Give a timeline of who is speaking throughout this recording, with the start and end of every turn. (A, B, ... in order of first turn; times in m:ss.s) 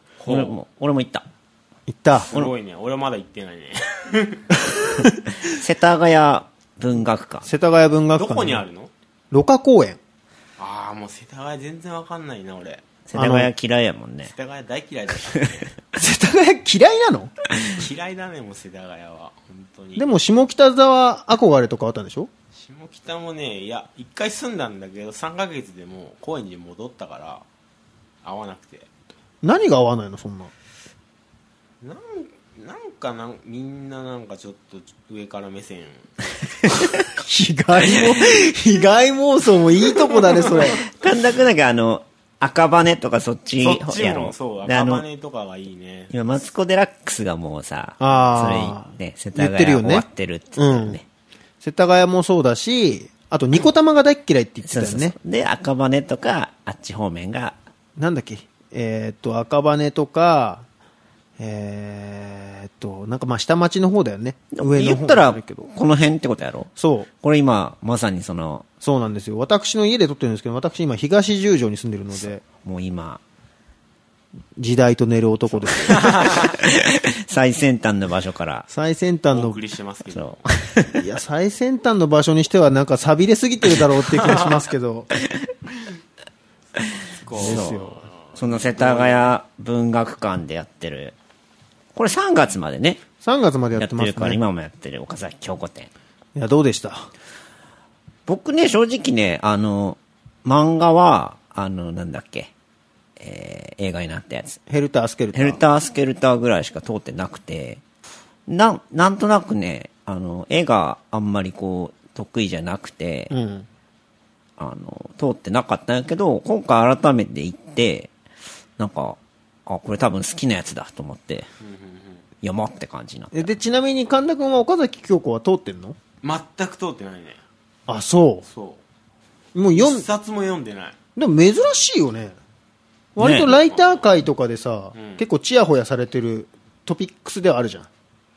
0:00.2-0:00.5 A
0:00.2-0:01.2 B
0:01.9-0:02.3 C
0:02.2-0:04.4 A
0:04.8-0:05.2 C
0:05.5-0:07.5 B
0:07.4-0:08.6 C
0:08.1-0:08.9 A
0:09.3-0:10.0 C
0:10.6-0:12.8 A
0:13.1-0:14.3 B
0:13.1-0:13.5 C
0:14.3-0:15.7 A
0:16.0-0:17.3 C
0:17.7-0:20.0 A
0:20.0-0:22.3 C
0:22.5-0:27.4 A
0:28.2-0:28.9 A
0:29.4-0:30.5 C
0:31.8-0:36.1 A
0:37.1-0:40.8 C
0:40.8-0:45.1 B
0:43.6-0:46.1 A
0:46.1-0:51.0 B
0:48.0-0:50.0 C
0:50.6-0:51.0 C
0:51.6-0:55.2 C
0:54.6-0:57.6 B
0:58.0-1:00.6 C
1:01.4-1:05.7 C
1:04.5-1:08.6 B
1:06.8-1:07.1 C
1:08.8-1:12.4 C
1:12.1-1:13.2 B
1:14.6-1:16.2 C
1:15.5-1:18.7 B
1:16.0-1:16.4 A
1:18.7-1:19.6 C
1:19.3-1:20.5 A
1:20.1-1:21.0 B
1:21.0-1:25.1 C
1:27.2-1:29.3 A
1:27.3-1:27.8 B
1:27.3-1:28.0 C
1:28.3-1:31.1 B
1:31.9-1:33.0 B
1:33.2-1:34.4 C
1:33.7-1:35.9 B
1:36.3-1:37.1 C
1:38.3-1:42.5 B
1:43.2-1:44.6 B
1:44.7-1:45.6 C
1:45.3-1:47.8 B
1:48.5-1:53.3 B
1:53.3-1:53.7 C
1:54.6-1:58.1 B
1:58.8-2:01.5 B
2:01.6-2:02.2 A
2:02.4-2:03.5 B
2:03.3-2:06.0 C
2:06.2-2:07.4 A
2:07.9-2:08.4 C
2:08.4-2:08.8 A
2:09.5-2:10.1 C
2:09.7-2:11.0 A
2:11.2-2:12.4 C
2:13.1-2:17.9 C
2:13.2-2:13.5 B
2:13.3-2:14.1 A
2:14.9-2:15.2 A